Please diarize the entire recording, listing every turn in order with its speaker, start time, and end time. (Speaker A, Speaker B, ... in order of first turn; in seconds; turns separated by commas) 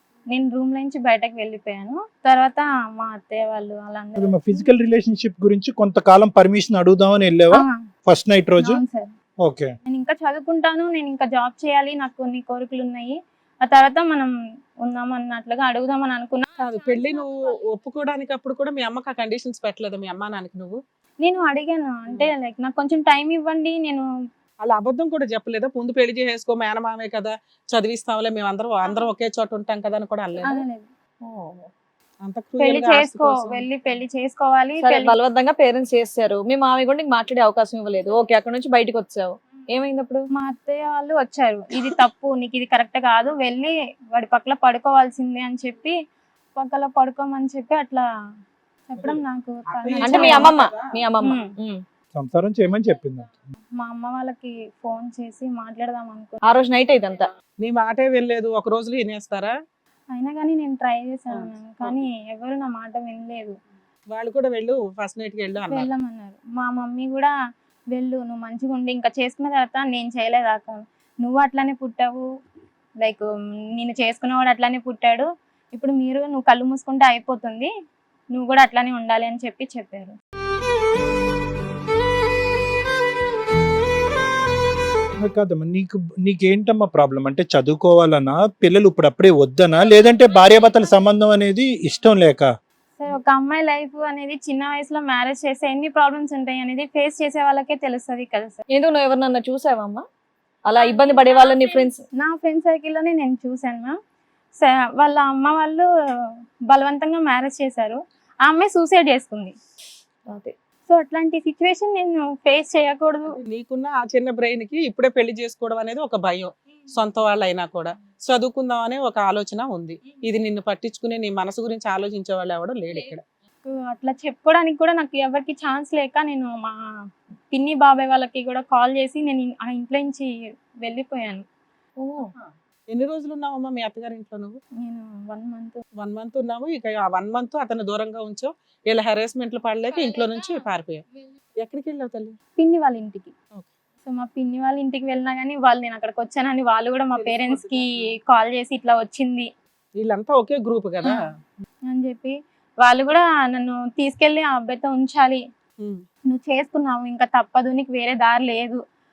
Speaker A: 0.3-4.7, Speaker B: 4.2-8.8, Speaker A: 7.5-7.8, Speaker A: 8.6-9.1, Speaker B: 9.4-9.8, Speaker A: 9.9-16.5, Speaker C: 16.6-20.8, Speaker A: 21.2-24.0, Speaker C: 24.6-30.6, Speaker A: 28.9-29.1, Speaker A: 30.4-30.9, Speaker D: 31.2-31.7, Speaker C: 32.2-33.6, Speaker A: 32.6-35.1, Speaker D: 34.8-40.3, Speaker A: 40.3-46.0, Speaker A: 46.6-48.1, Speaker A: 48.9-50.5, Speaker C: 49.7-50.9, Speaker D: 50.0-51.8, Speaker A: 51.2-51.5, Speaker B: 52.1-53.3, Speaker A: 53.8-56.4, Speaker D: 56.5-57.3, Speaker C: 57.6-59.5, Speaker A: 60.1-63.5, Speaker C: 61.4-61.9, Speaker C: 64.1-65.9, Speaker A: 65.7-67.3, Speaker A: 67.9-72.2, Speaker A: 73.8-77.7, Speaker A: 78.3-80.2, Speaker B: 85.2-92.5, Speaker A: 93.0-98.6, Speaker D: 98.7-100.0, Speaker D: 100.7-102.0, Speaker A: 100.9-104.0, Speaker A: 104.6-109.5, Speaker A: 110.9-113.4, Speaker C: 113.4-123.2, Speaker A: 123.7-131.4, Speaker D: 132.0-132.3, Speaker C: 132.9-134.6, Speaker A: 134.8-135.8, Speaker C: 136.0-141.0, Speaker C: 141.6-142.3, Speaker A: 142.6-143.3, Speaker A: 144.1-149.5, Speaker C: 147.2-147.9, Speaker C: 150.0-151.3, Speaker A: 151.9-155.4, Speaker A: 156.3-158.8